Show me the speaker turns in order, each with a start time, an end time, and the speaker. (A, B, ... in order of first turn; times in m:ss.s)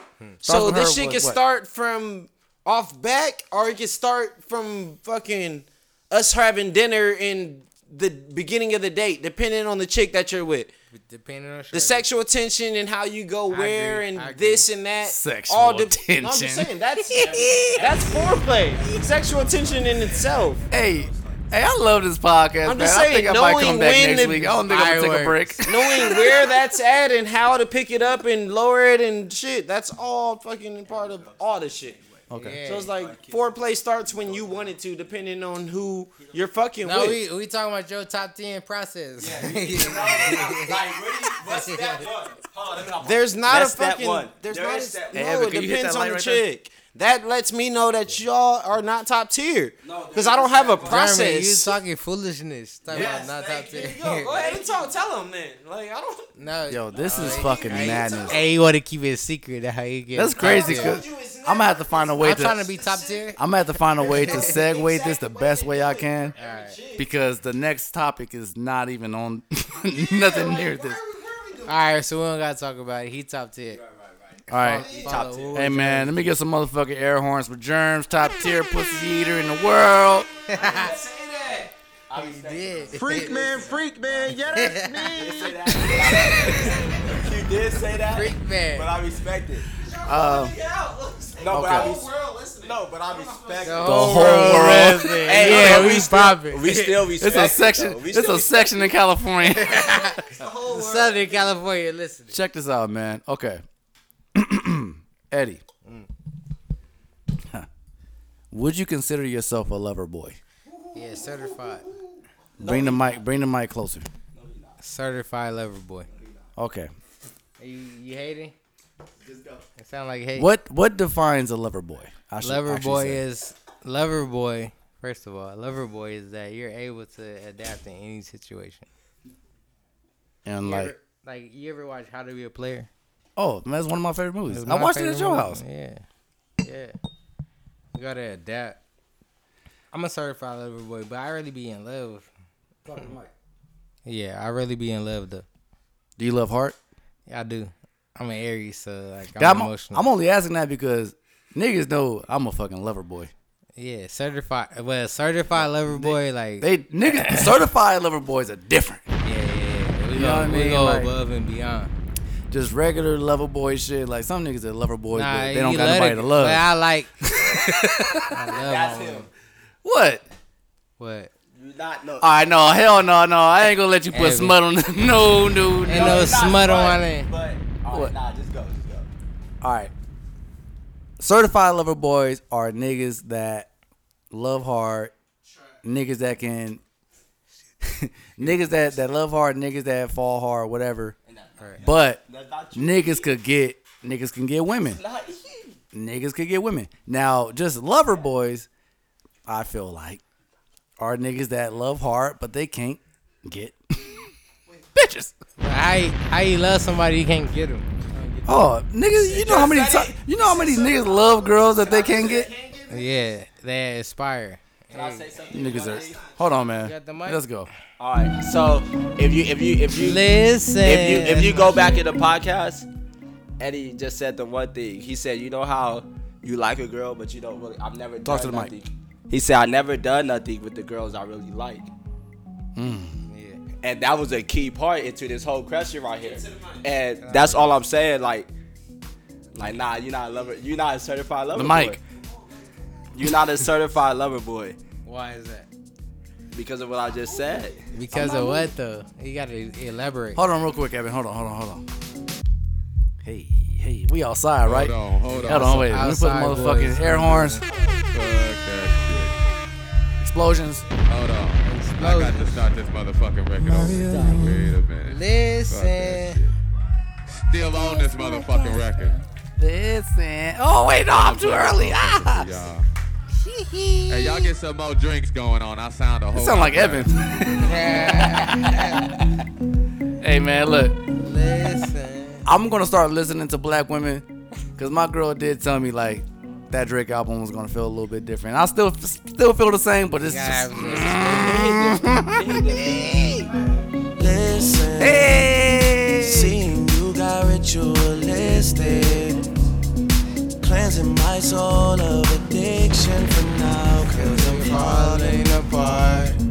0:00.4-0:10.7 A
0:00.4-0:01.4 B
0:10.9-0:12.0 C
0:11.7-0:20.6 A
0:13.5-0:14.7 C
0:15.0-0:17.9 B
0:17.6-0:21.3 D
0:20.7-0:26.1 B
0:22.6-0:24.6 A
0:24.6-0:25.7 C
0:25.6-0:32.0 A
0:26.0-0:26.5 D
0:27.9-0:28.2 D
0:30.8-0:35.2 D
0:32.3-0:32.6 B
0:32.4-0:32.9 C
0:32.6-0:37.2 A
0:36.1-0:36.5 D
0:36.8-0:42.1 C
0:39.2-0:45.4 D
0:42.9-0:51.8 A
0:45.1-0:46.4 B
0:49.8-0:51.2 D
0:50.8-0:54.5 C
0:52.9-0:55.1 D
0:53.7-0:56.3 A
0:56.4-1:01.0 C
0:56.7-0:58.4 B
0:57.2-0:58.6 A
1:00.1-1:02.7 B
1:00.3-1:03.4 A
1:02.2-1:03.4 C
1:03.4-1:06.3 B
1:03.9-1:07.1 A
1:04.1-1:04.6 C
1:06.4-1:06.8 C
1:07.0-1:11.0 B
1:09.9-1:11.8 A
1:11.6-1:13.8 C
1:13.7-1:15.7 D
1:14.5-1:14.9 B
1:14.5-1:16.2 C
1:14.8-1:15.4 A
1:15.5-1:20.3 B
1:20.5-1:21.0 C
1:20.5-1:21.7 A
1:20.6-1:20.9 D
1:22.1-1:24.4 D
1:22.1-1:23.6 C
1:23.2-1:27.0 A
1:24.3-1:25.2 C
1:25.1-1:29.6 D
1:28.0-1:28.9 C
1:29.8-1:33.7 A
1:30.0-1:30.5 B
1:31.4-1:38.9 D
1:31.5-1:31.9 B
1:33.6-1:37.1 C
1:33.8-1:36.1 B
1:37.2-1:40.0 B
1:39.4-1:42.4 C
1:40.3-1:41.5 A
1:42.3-1:43.6 B
1:44.3-1:45.6 B
1:48.5-1:50.4 B
1:50.9-1:51.9 C
1:52.6-1:53.2 D
1:52.6-1:54.1 B
1:54.3-1:54.8 D
1:54.8-1:56.1 C
1:56.1-1:56.4 D
1:56.6-1:56.9 B
1:57.6-1:58.5 C
1:59.2-1:59.6 D
1:59.8-2:00.5 C
2:00.4-2:03.2 B
2:02.4-2:08.8 C
2:10.4-2:10.9 B
2:10.6-2:12.9 C
2:13.4-2:15.6 B
2:14.5-2:16.0 C
2:16.6-2:16.9 C
2:17.9-2:18.8 C
2:19.9-2:22.3 C
2:22.8-2:23.3 B
2:24.0-2:25.4 C
2:26.2-2:26.8 B
2:27.3-2:30.0 C
2:29.4-2:33.3 B
2:33.8-2:37.5 C
2:35.6-2:39.0 B
2:39.2-2:41.9 C
2:40.1-2:41.1 B
2:42.5-2:46.7 B
2:45.1-2:49.3 C
2:47.2-2:48.3 B
2:48.6-2:49.3 D
2:49.8-2:50.2 B
2:51.0-2:51.3 C
2:51.5-2:52.3 D
2:52.2-2:56.3 B
2:54.1-2:54.6 C
2:55.8-2:57.3 C
2:55.8-2:59.1 D
2:59.6-2:59.9 B
3:01.2-3:03.7 B
3:04.3-3:05.1 B
3:05.8-3:06.8 B
3:07.8-3:11.2 B
3:08.4-3:08.7 D
3:11.2-3:13.4 D
3:11.8-3:12.2 B
3:12.7-3:15.0 B
3:14.8-3:15.7 D
3:15.9-3:18.7 B
3:19.5-3:20.2 B
3:21.0-3:24.2 B
3:24.9-3:25.3 B
3:25.6-3:28.6 C
3:28.4-3:32.5 B
3:29.2-3:32.2 D
3:30.8-3:33.4 A
3:32.9-3:35.4 C
3:34.9-3:36.3 D
3:35.5-3:37.7 B
3:35.7-3:36.5 A
3:36.8-3:37.4 C
3:38.0-3:42.9 D
3:39.9-3:42.0 C
3:43.6-3:51.9 D
3:48.2-3:48.7 B
3:52.8-3:53.2 B
3:53.2-3:53.6 C
3:53.8-3:58.5 D
3:56.1-3:56.9 A
3:57.2-3:57.8 C
3:59.5-4:02.0 D
4:01.5-4:02.0 B
4:02.3-4:02.7 A
4:03.1-4:04.8 D
4:05.0-4:05.7 C
4:06.5-4:08.7 D
4:07.9-4:10.4 C
4:10.4-4:11.8 B
4:13.2-4:14.9 B
4:14.6-4:16.0 E
4:15.4-4:17.6 C
4:15.4-4:17.6 B
4:18.1-4:19.3 E
4:20.2-4:20.8 B
4:21.0-4:26.5 E
4:21.6-4:22.6 C
4:24.0-4:24.4 C
4:25.0-4:26.4 C
4:27.4-4:29.2 E
4:27.7-4:29.0 C
4:29.6-4:32.6 B
4:31.1-4:32.8 E
4:33.6-4:34.4 B
4:34.1-4:37.5 E
4:36.3-4:38.0 B
4:37.6-4:39.1 C
4:40.2-4:41.0 B
4:41.2-4:42.4 C
4:42.4-4:44.2 B
4:44.8-4:53.4 B
4:50.2-4:52.0 C
4:51.4-4:53.5 D
4:54.2-4:55.5 F
4:55.0-4:56.5 B
4:56.2-4:59.4 F
5:00.6-5:06.4 F
5:04.1-5:06.3 C